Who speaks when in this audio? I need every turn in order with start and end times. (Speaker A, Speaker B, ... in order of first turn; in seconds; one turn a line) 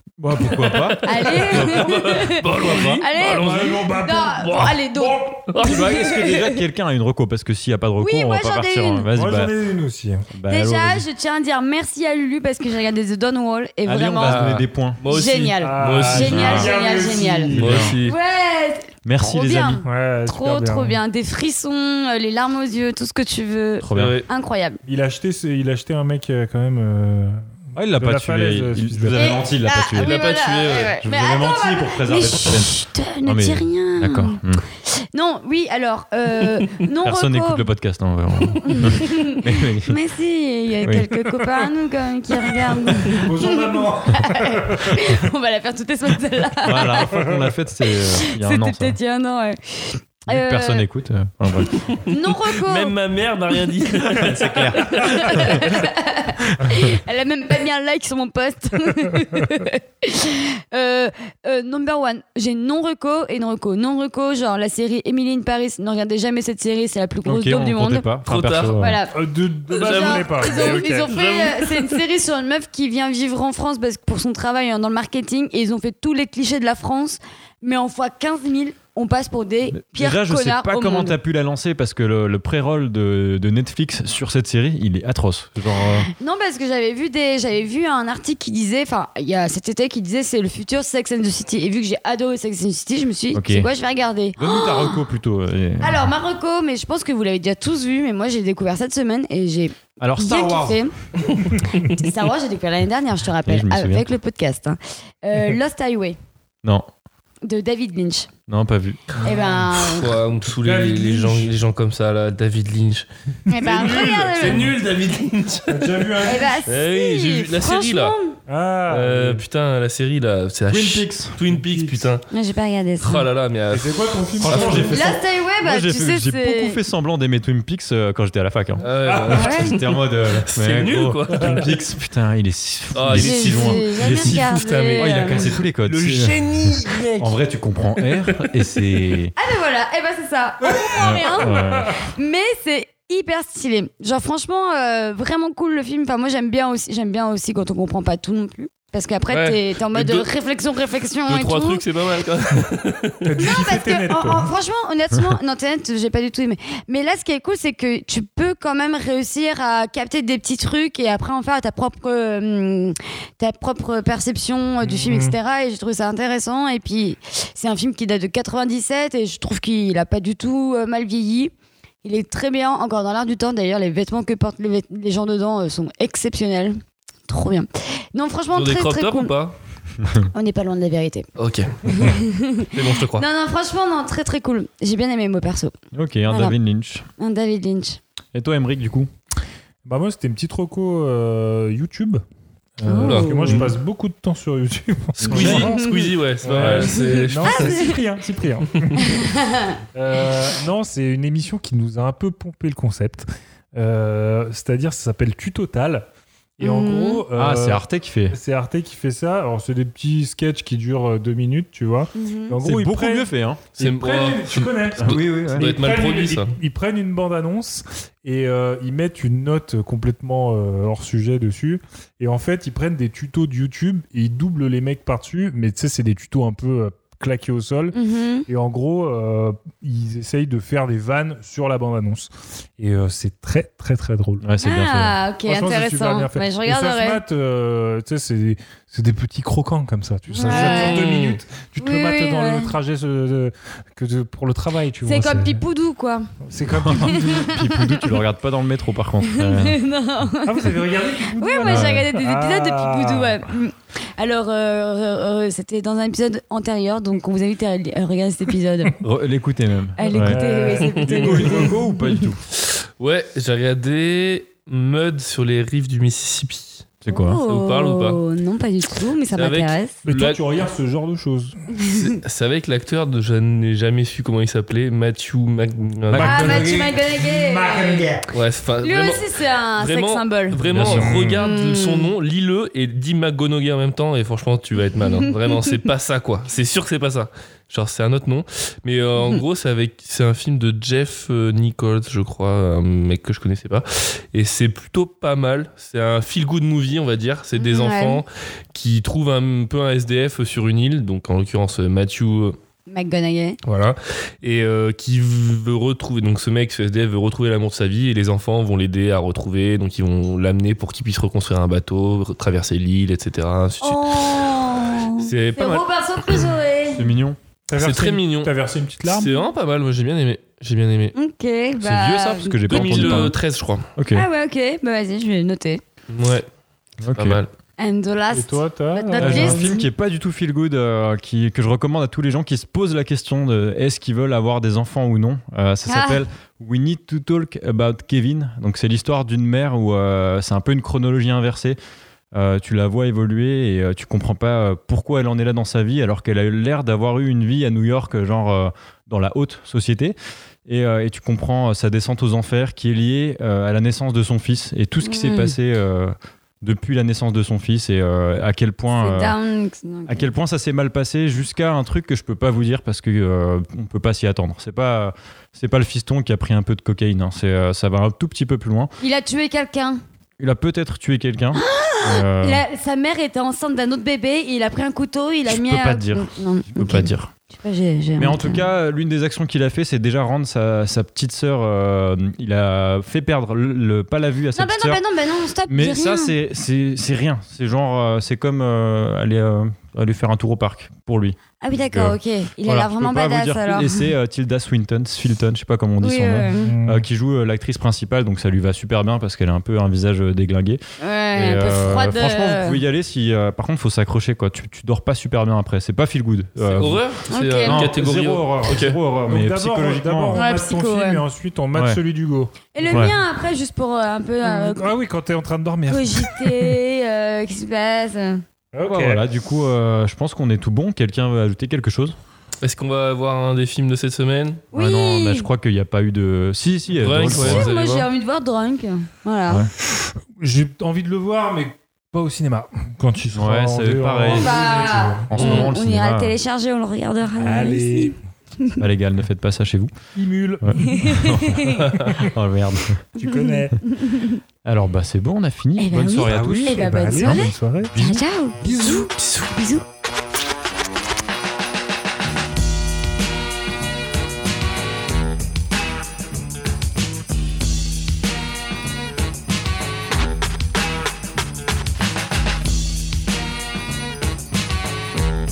Speaker A: 0.2-1.9
Speaker B: 0.5-4.8
Speaker C: 1.1-6.6
Speaker A: 2.6-3.0
Speaker D: 3.2-5.4
Speaker A: 5.6-9.5
Speaker C: 8.0-9.1
Speaker D: 9.1-10.3
Speaker A: 10.3-11.1
Speaker C: 10.5-14.5
Speaker A: 13.8-15.0
Speaker B: 14.2-16.6
Speaker C: 15.1-24.8
Speaker D: 15.6-17.9
Speaker A: 16.2-16.7
Speaker A: 17.5-18.0
Speaker B: 17.6-18.2
Speaker A: 19.0-19.8
Speaker D: 19.9-21.0
Speaker A: 23.8-24.2
Speaker B: 23.9-24.2
Speaker D: 24.9-29.4
Speaker A: 27.8-30.2
Speaker C: 29.1-37.7
Speaker B: 30.0-31.0
Speaker A: 31.0-32.7
Speaker A: 33.2-34.6
Speaker A: 37.0-40.0
Speaker C: 38.6-47.1
Speaker D: 43.1-45.1
Speaker A: 46.7-49.0
Speaker C: 47.9-50.9
Speaker A: 50.3-51.9
Speaker C: 52.1-53.0
Speaker B: 52.6-55.6
Speaker A: 54.2-55.5
Speaker C: 54.9-68.1
Speaker A: 67.2-69.0
Speaker B: 68.2-68.8
Speaker C: 68.8-69.1
Speaker D: 69.1-71.1
Speaker B: 69.7-72.0
Speaker C: 69.8-81.2
Speaker A: 79.7-86.1
Speaker C: 86.2-95.0
Speaker A: 93.3-93.7
Speaker A: 94.4-96.1
Speaker C: 95.8-100.9
Speaker A: 100.0-100.8
Speaker C: 101.9-106.2
Speaker A: 103.5-104.1
Speaker C: 107.5-108.3
Speaker A: 108.5-109.0
Speaker D: 109.2-109.6
Speaker C: 109.2-110.1
Speaker B: 109.8-113.1
Speaker D: 110.6-111.5
Speaker C: 113.5-114.6
Speaker D: 113.5-114.7
Speaker B: 113.6-116.1
Speaker D: 115.7-116.6
Speaker C: 116.2-118.4
Speaker B: 116.7-118.2
Speaker D: 118.5-119.4
Speaker B: 118.9-122.2
Speaker A: 120.7-121.4
Speaker D: 121.5-122.1
Speaker C: 122.3-123.3
Speaker B: 123.0-124.9
Speaker D: 123.7-125.2
Speaker A: 124.4-134.4
Speaker C: 124.9-126.8
Speaker B: 128.8-131.7
Speaker D: 129.0-129.5
Speaker C: 129.3-129.7
Speaker D: 131.4-131.6
Speaker B: 132.9-137.2
Speaker C: 133.1-135.5
Speaker A: 134.9-139.3
Speaker D: 136.6-137.0
Speaker B: 138.0-138.5
Speaker C: 139.4-141.6
Speaker D: 140.7-142.0
Speaker A: 141.0-142.0
Speaker C: 142.2-151.8
Speaker B: 149.3-150.3
Speaker B: 151.3-153.2
Speaker D: 153.2-154.5
Speaker C: 153.4-171.5
Speaker D: 164.8-165.3
Speaker C: 172.0-179.3
Speaker B: 178.5-179.6
Speaker C: 180.3-181.3
Speaker B: 181.4-182.2
Speaker C: 181.8-185.7
Speaker B: 182.7-183.2
Speaker A: 185.9-187.1
Speaker C: 186.3-186.6
Speaker C: 187.2-188.0
Speaker A: 188.3-189.1
Speaker D: 189.8-192.2
Speaker D: 192.8-199.2
Speaker C: 192.9-193.7
Speaker B: 193.0-193.7
Speaker B: 195.2-198.0
Speaker A: 195.3-195.7
Speaker C: 195.5-196.0
Speaker C: 196.9-197.9
Speaker C: 199.1-199.8
Speaker D: 199.9-206.1
Speaker D: 206.6-228.0
Speaker C: 206.6-207.2
Speaker A: 207.3-208.4
Speaker C: 212.2-212.6
Speaker A: 212.6-213.7
Speaker B: 213.8-216.6
Speaker A: 215.0-215.7
Speaker C: 227.9-228.5
Speaker D: 228.5-234.4
Speaker A: 234.4-235.2
Speaker C: 234.6-237.2
Speaker D: 235.5-245.6
Speaker C: 240.3-241.0
Speaker B: 240.4-241.4
Speaker C: 241.8-242.7
Speaker C: 245.1-246.3
Speaker D: 246.4-247.5
Speaker A: 246.7-249.8
Speaker C: 247.0-248.1
Speaker C: 249.2-250.8
Speaker D: 250.4-253.4
Speaker C: 251.3-259.0
Speaker A: 251.6-252.1
Speaker A: 259.0-260.4
Speaker C: 260.0-262.2
Speaker D: 260.1-261.8
Speaker A: 261.0-262.4
Speaker B: 262.6-266.9
Speaker A: 267.0-267.4
Speaker C: 267.1-270.0
Speaker B: 267.5-268.2
Speaker B: 269.3-270.4
Speaker D: 270.1-271.6
Speaker C: 271.8-272.0
Speaker B: 271.9-276.6
Speaker A: 276.1-276.6
Speaker D: 276.1-278.2
Speaker C: 276.2-278.1
Speaker B: 278.3-279.3
Speaker C: 278.8-280.6
Speaker B: 279.8-302.6
Speaker A: 280.6-281.1
Speaker D: 280.7-281.4
Speaker C: 281.4-282.1
Speaker C: 297.6-298.2
Speaker C: 302.9-303.6
Speaker B: 303.6-314.4
Speaker C: 313.8-317.0
Speaker B: 315.2-315.9
Speaker A: 316.9-317.4
Speaker D: 317.7-319.3
Speaker B: 317.8-318.5
Speaker B: 319.1-321.1
Speaker C: 321.1-323.2
Speaker A: 321.8-323.4
Speaker B: 322.7-323.9
Speaker A: 324.0-324.3
Speaker C: 324.1-325.8
Speaker B: 326.1-326.5
Speaker A: 327.0-327.4
Speaker B: 327.1-327.5
Speaker C: 327.8-329.9
Speaker D: 328.3-329.8
Speaker A: 329.2-341.8
Speaker C: 335.9-336.2
Speaker A: 342.3-350.2
Speaker A: 350.7-359.4
Speaker C: 355.0-355.5
Speaker C: 359.0-360.3
Speaker A: 360.1-368.9
Speaker C: 369.0-370.0
Speaker A: 370.4-372.6
Speaker C: 371.6-378.6
Speaker A: 375.5-377.3
Speaker A: 378.2-385.0
Speaker C: 384.6-386.3
Speaker A: 385.7-391.4
Speaker C: 391.6-394.1
Speaker A: 391.9-400.8
Speaker C: 396.0-396.7
Speaker D: 396.6-397.1
Speaker C: 401.0-402.8
Speaker A: 401.3-407.1
Speaker B: 406.6-409.0
Speaker C: 407.3-407.9
Speaker A: 407.6-410.4
Speaker D: 409.3-413.2
Speaker C: 410.4-411.2
Speaker A: 411.7-412.0
Speaker C: 412.7-414.9
Speaker A: 412.9-413.1
Speaker D: 414.4-416.8
Speaker C: 415.9-418.4
Speaker D: 418.7-419.2
Speaker A: 418.8-422.2
Speaker B: 422.6-424.6
Speaker A: 424.7-427.6
Speaker C: 424.7-425.5
Speaker B: 427.0-428.1
Speaker C: 427.3-429.6
Speaker D: 430.4-435.6
Speaker A: 433.3-434.6
Speaker C: 434.3-438.8
Speaker A: 435.3-436.4
Speaker D: 437.4-438.1
Speaker A: 438.8-439.9
Speaker D: 440.2-441.3
Speaker A: 440.6-443.0
Speaker C: 440.8-441.8
Speaker D: 442.0-442.3
Speaker D: 443.2-443.8
Speaker C: 443.2-444.4
Speaker A: 444.7-448.2
Speaker C: 445.8-449.8
Speaker D: 446.3-447.9
Speaker D: 448.6-449.1
Speaker B: 449.2-449.5